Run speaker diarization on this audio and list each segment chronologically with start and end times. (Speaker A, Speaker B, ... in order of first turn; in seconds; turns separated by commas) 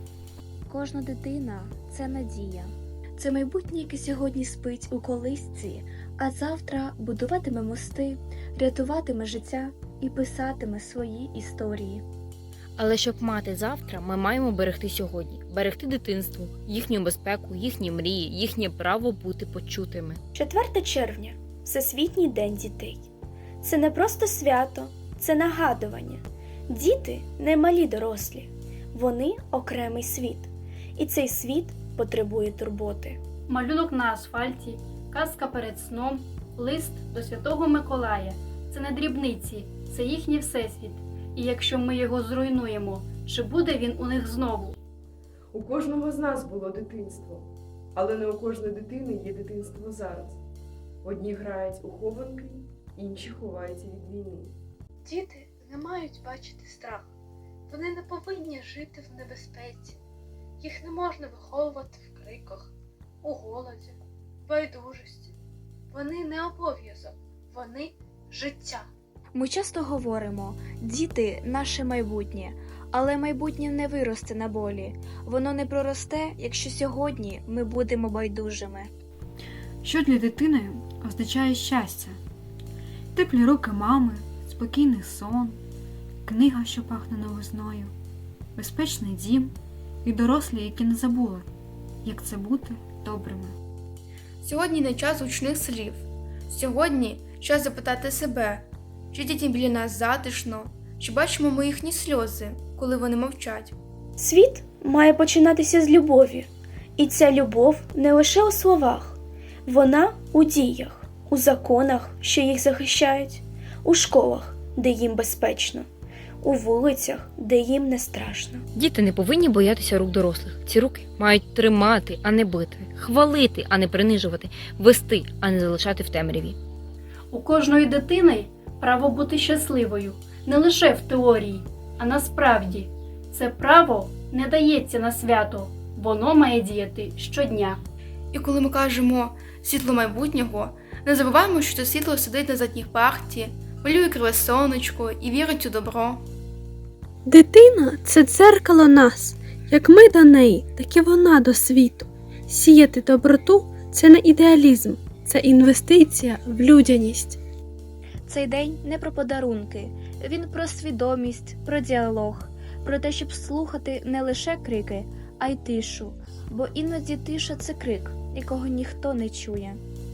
Speaker A: 0.7-12.1, Speaker B: 12.8-20.2, Speaker C: 20.3-23.1, Speaker C: 23.6-33.2, Speaker D: 33.5-44.8, Speaker E: 45.5-50.4, Speaker E: 51.0-54.6, Speaker F: 55.0-57.1, Speaker F: 57.7-60.0, Speaker F: 60.6-65.3, Speaker F: 65.9-68.9, Speaker A: 69.3-79.0, Speaker G: 79.8-82.2, Speaker G: 83.1-85.6, Speaker G: 86.2-87.9, Speaker G: 88.6-91.5, Speaker G: 92.0-93.6, Speaker H: 94.4-103.8, Speaker C: 104.2-115.9, Speaker C: 116.4-118.7, Speaker B: 118.8-126.6, Speaker D: 127.3-137.8, Speaker H: 138.3-146.3, Speaker I: 147.2-157.4, Speaker A: 158.2-169.8